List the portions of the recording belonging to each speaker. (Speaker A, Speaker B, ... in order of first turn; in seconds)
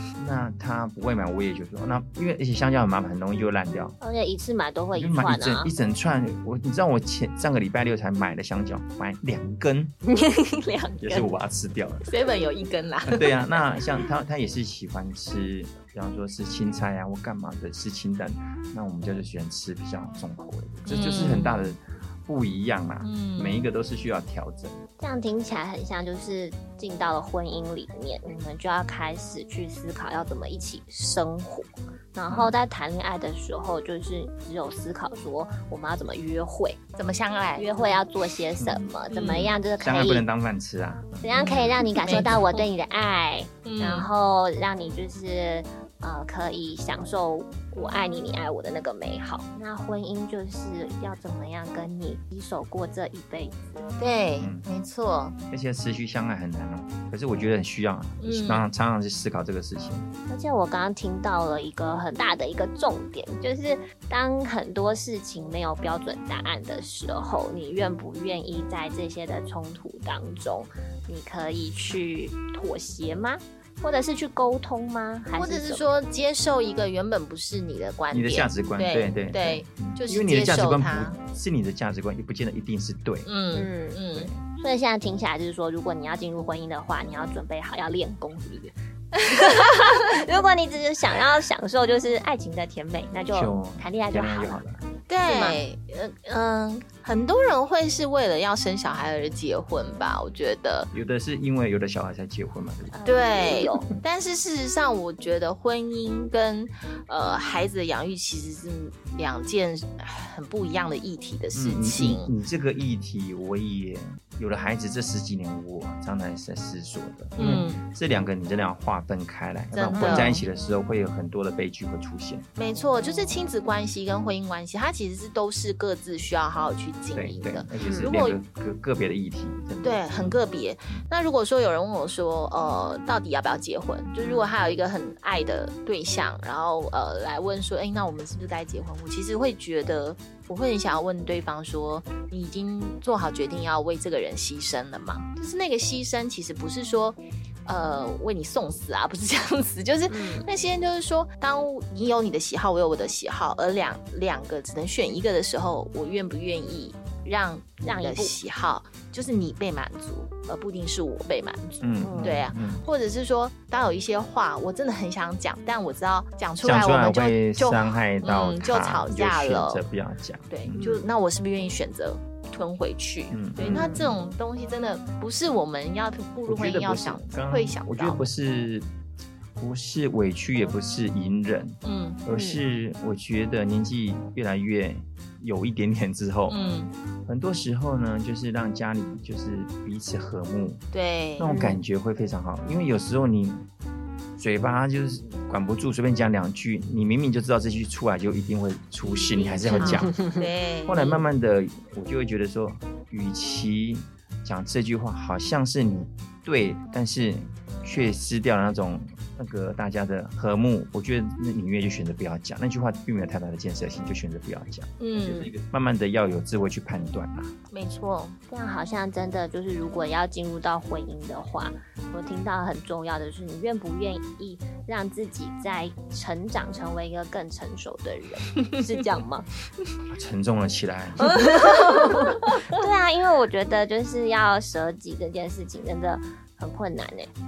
Speaker A: 0.1-4.0, 4.9-9.9, 11.0-12.1, 13.1-24.8, 32.3-32.5, 38.6-41.6, 54.4-54.6, 55.5-60.1, 78.1-83.3, 84.2-84.4, 93.3-94.9, 100.9-102.9, 111.5-122.5, 127.1-130.4, 161.8-162.8, 166.6-171.0, 173.3-174.1, 176.5-178.9, 179.6-186.6, 187.3-190.8, 191.4-193.7, 194.4-200.3, 200.9-217.5, 230.1-231.3
Speaker B: 4.0-5.7, 10.1-11.3, 25.0-36.8, 37.6-40.2, 41.2-53.8, 60.3-75.9, 83.5-84.0, 84.6-94.6, 95.3-95.6, 102.9-103.9, 119.9-120.4, 127.8-128.1, 134.2-134.5, 150.1-150.5, 157.8-158.3, 162.0-162.4, 173.7-174.1, 182.3-182.6, 191.5-191.8, 199.7-200.3, 218.5-229.5, 231.3-237.3
Speaker C: 12.1-13.6, 20.9-21.7, 23.0-23.7, 37.0-37.9, 39.1-39.5, 41.3-42.7, 43.6-44.1, 54.0-55.4, 58.2-58.7, 75.4-81.2, 83.3-84.3, 95.1-100.9, 103.0-112.3, 117.4-117.8, 119.7-120.4, 122.6-128.4, 129.8-169.8, 170.5-178.3, 181.8-182.2, 186.5-186.9, 190.9-191.6, 199.2-201.2, 215.0-215.5, 217.7-218.4, 231.3-232.7